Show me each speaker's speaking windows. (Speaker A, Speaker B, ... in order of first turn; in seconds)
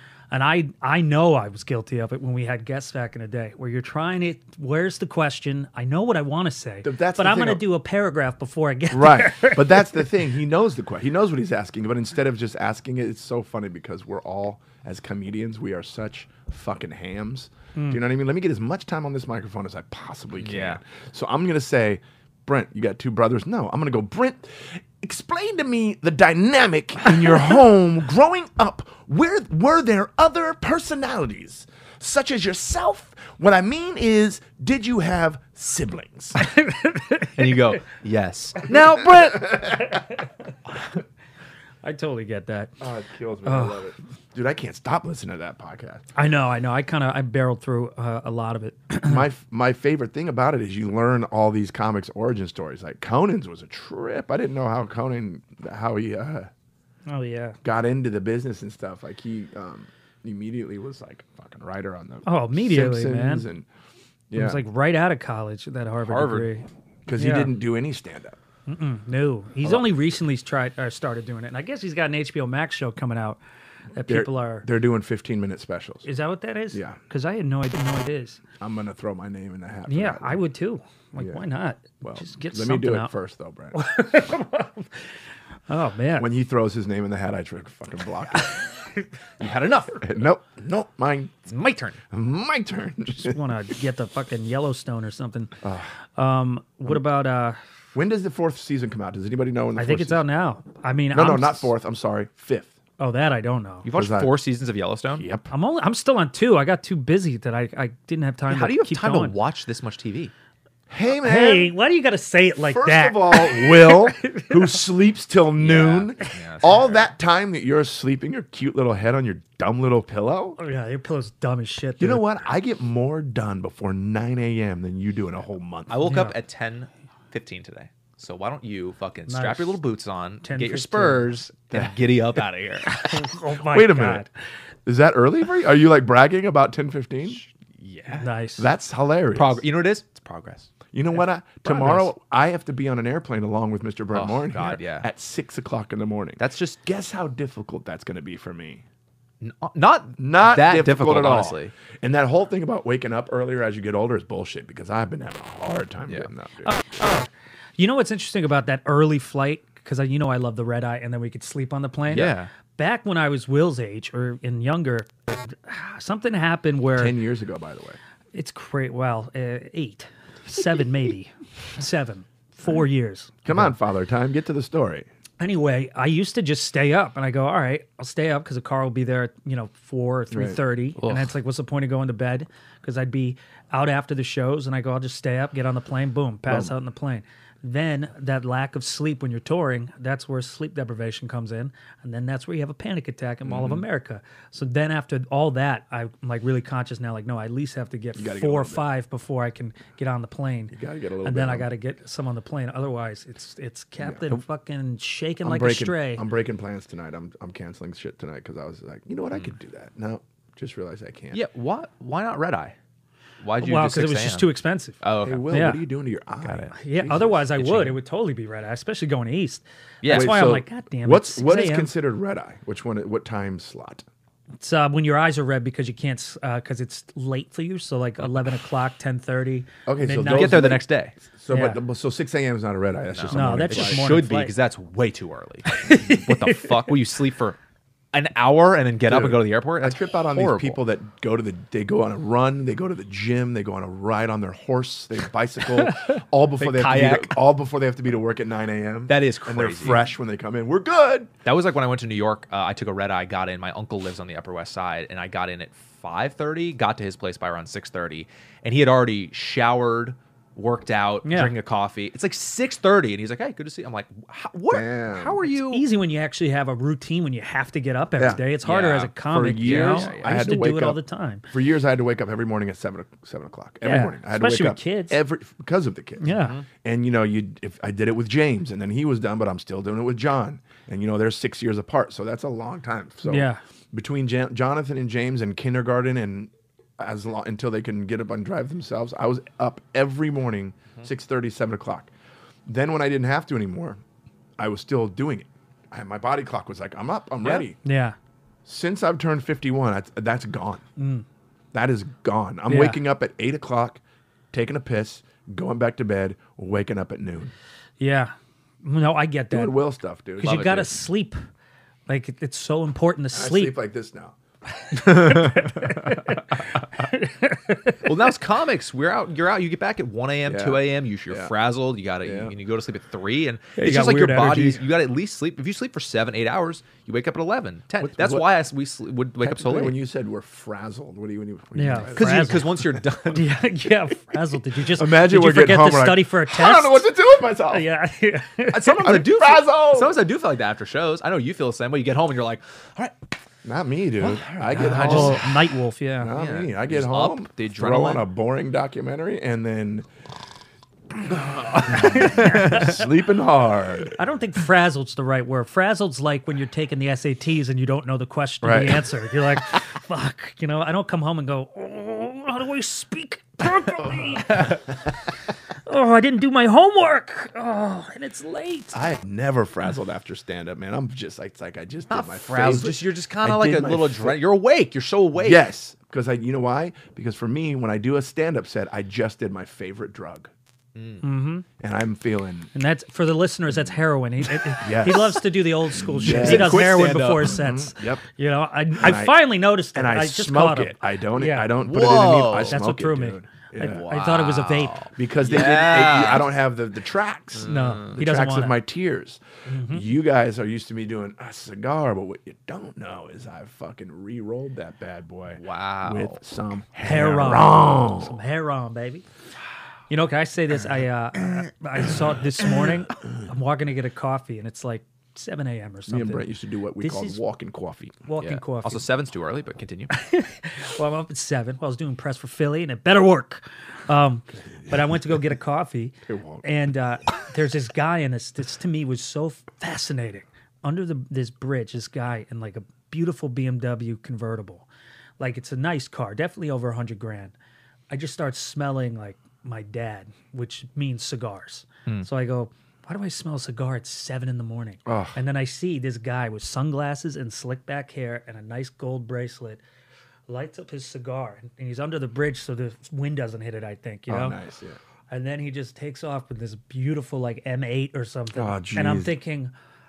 Speaker A: 0.3-10.1, 36.4-37.5, 41.8-42.8, 43.4-43.9, 46.2-49.2, 57.1-57.6, 62.2-63.5, 64.3-67.5, 68.7-73.4, 73.9-74.7, 76.0-78.4, 79.9-83.1, 83.7-85.1, 85.7-86.3, 93.1-95.6, 96.2-97.6, 99.8-101.7, 103.0-103.9, 105.5-109.4, 111.2-114.7, 120.6-122.3, 126.0-126.4, 129.3-129.8, 130.4-131.3, 132.9-134.3, 138.2-138.7, 156.7-167.2, 168.3-173.4, 175.4-206.2, 213.6-215.0, 215.5-215.8, 216.7-221.9, 224.6-230.7, 231.5-231.8, 233.3-234.5, 235.7-237.0, 261.2-261.5, 265.4-271.5, 273.8-275.2, 276.2-276.6, 283.3-283.6, 297.8-298.2, 301.0-301.2, 302.7-303.0, 308.0-309.8, 310.4-311.4, 312.1-313.8, 314.9-318.1, 323.8-324.8, 331.8-332.7, 333.3-339.0, 344.8-346.3, 351.8-353.0, 354.2-364.9, 365.9-369.1, 381.2-381.6, 382.7-391.7, 392.7-395.1, 397.6-398.8, 399.6-400.1, 407.0-409.2, 410.1-416.4, 417.0-417.4, 418.3-419.1, 420.1-434.9, 435.4-437.5, 438.1-449.8, 450.5-454.6, 455.3-459.7
Speaker B: 6.8-7.7, 8.9-36.4, 39.5-39.8, 42.8-46.0, 49.0-56.5, 57.6-63.7, 64.3-64.6, 67.1-68.4, 69.6-70.0, 74.1-76.1, 76.7-77.0, 78.6-80.4, 82.0-83.8, 86.2-88.7, 90.0-91.5, 92.1-93.4, 95.6-95.9, 98.0-100.2, 101.1-102.7, 103.9-104.4, 105.1-105.5, 110.9-111.7, 112.6-120.6, 122.0-126.0, 133.6-134.2, 134.9-137.4, 138.6-139.6, 140.9-148.8, 150.2-156.8, 166.9-168.0, 173.4-175.1, 180.3-180.6, 186.5-186.7, 193.4-193.8, 198.2-198.9, 200.7-201.7, 204.0-204.3, 205.4-211.4, 215.2-217.4, 220.1-224.1, 229.9-234.1, 239.0-251.3, 264.7-265.4, 268.2-268.4, 269.2-271.0, 271.5-292.1, 292.7-294.0, 294.6-297.8, 298.7-300.9, 301.7-304.0, 304.5-307.5, 309.5-310.9, 313.3-314.4, 315.0-315.7, 320.4-321.5, 322.2-322.5, 328.0-328.6, 329.4-332.9, 334.9-337.9, 338.7-340.2, 343.6-345.5, 346.2-350.1, 351.1-354.2, 358.6-359.0, 368.9-374.4, 375.4-380.5, 381.8-382.7, 384.8-388.2, 388.9-394.1, 395.1-408.4, 416.1-418.2, 424.7-425.2, 426.3-426.6, 445.1-445.4, 454.3-455.0, 458.6-459.4
Speaker C: 20.4-20.8, 37.4-39.8, 66.0-66.5, 89.4-90.1, 91.5-92.0, 103.8-105.3, 108.5-110.3, 115.6-117.1, 125.9-133.2, 137.4-138.3, 139.3-140.8, 141.7-142.1, 144.1-145.1, 146.4-146.8, 149.4-151.7, 162.1-162.5, 181.0-181.3, 211.3-212.8, 213.4-215.5, 217.6-218.0, 220.0-220.5, 230.2-231.2, 233.1-237.6, 238.1-240.8, 246.6-247.4, 249.1-250.1, 251.4-265.9, 268.6-270.3, 276.3-276.6, 318.0-330.0, 332.1-333.5, 338.7-343.1, 344.2-345.5, 346.3-348.3, 352.1-352.9, 372.1-375.7, 380.9-381.2, 386.2-387.6, 391.8-392.8, 393.8-396.5, 397.6-398.2, 405.6-406.4, 418.4-420.1